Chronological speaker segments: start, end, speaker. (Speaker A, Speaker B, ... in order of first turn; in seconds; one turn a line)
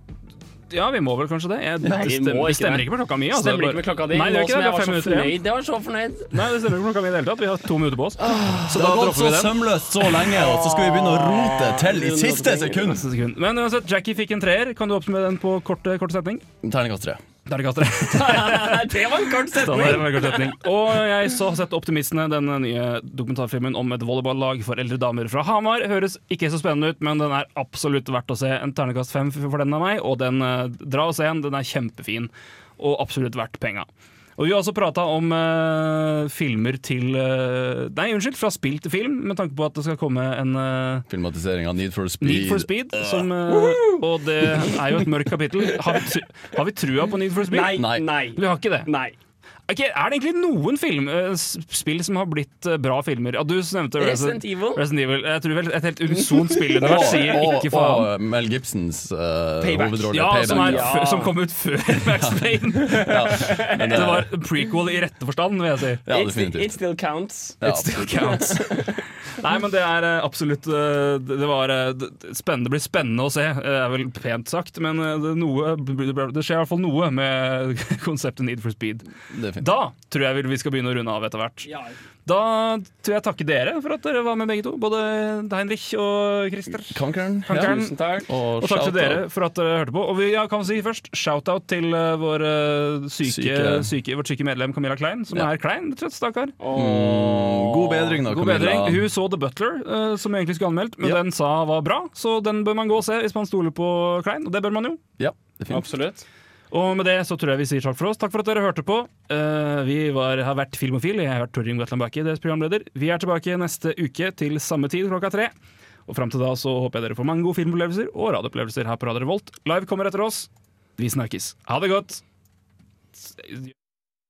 Speaker A: 0.7-5.3
Speaker B: 1.8-2.1
Speaker C: 2.0-6.3
Speaker A: 6.3-9.6
Speaker B: 8.4-13.1
Speaker C: 10.3-13.0
Speaker A: 12.9-16.4
Speaker B: 16.6-17.2
Speaker A: 17.5-18.8
Speaker C: 18.1-20.5
Speaker A: 19.6-41.1
Speaker B: 41.1-43.3
Speaker A: 42.2-47.8
Speaker C: 47.5-49.2
Speaker B: 47.8-48.0
Speaker A: 48.4-48.9
Speaker A: 49.7-58.1
Speaker C: 54.0-54.8
Speaker C: 56.2-57.4
Speaker B: 56.8-60.9
Speaker C: 59.6-61.4
Speaker A: 60.1-66.0
Speaker B: 62.1-64.3
Speaker C: 62.9-64.2
Speaker B: 66.0-66.8
Speaker C: 66.1-69.0
Speaker B: 67.6-68.0
Speaker A: 67.6-79.0
Speaker B: 79.3-79.8
Speaker A: 79.6-81.7
Speaker C: 81.7-82.0
Speaker A: 82.3-88.0
Speaker B: 86.9-89.2
Speaker C: 87.5-88.3
Speaker A: 88.6-96.6
Speaker B: 93.2-93.9
Speaker C: 96.6-98.2
Speaker B: 96.7-99.1
Speaker A: 98.3-105.0
Speaker B: 105.2-105.9
Speaker C: 105.7-106.2
Speaker A: 106.7-115.5
Speaker A: 116.1-122.2
Speaker A: 123.4-123.7